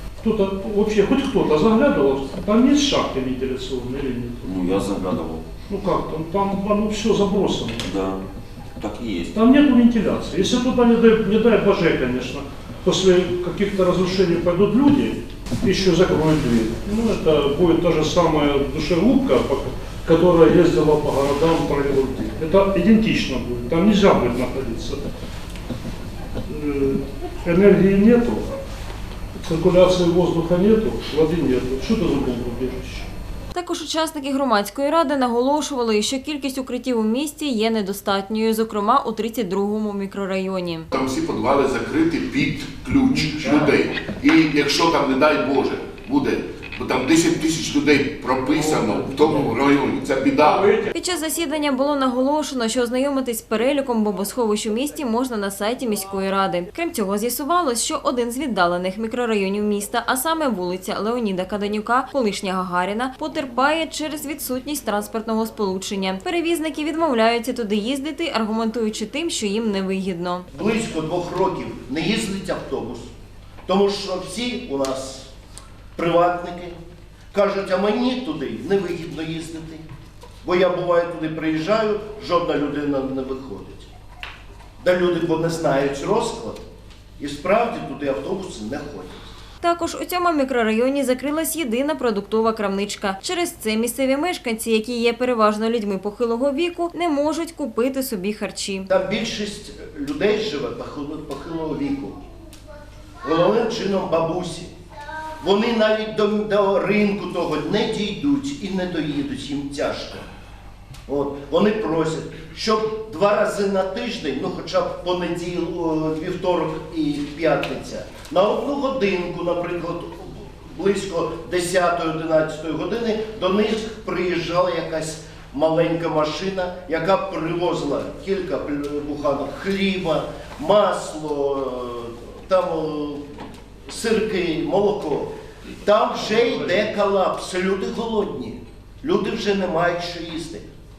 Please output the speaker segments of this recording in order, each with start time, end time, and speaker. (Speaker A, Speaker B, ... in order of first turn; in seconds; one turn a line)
Speaker A: 0.2-4.8
Speaker B: 4.4-5.5
Speaker A: 5.7-7.9
Speaker B: 7.8-9.6
Speaker A: 9.3-25.0
Speaker A: 26.5-28.5
Speaker A: 29.4-33.1
Speaker C: 33.5-40.9
Speaker D: 40.9-50.7
Speaker C: 50.9-70.5
Speaker E: 70.5-73.1
Speaker E: 73.7-75.3
Speaker E: 76.0-76.8
Speaker E: 77.3-79.8
Speaker E: 80.4-83.9
Speaker E: 84.8-86.7
Speaker E: 87.2-89.3
Speaker C: 89.6-98.9
Speaker E: 98.9-102.2
Speaker E: 103.2-104.7
Speaker E: 105.4-110.3
Speaker E: 111.1-133.3
Speaker E: 133.9-140.7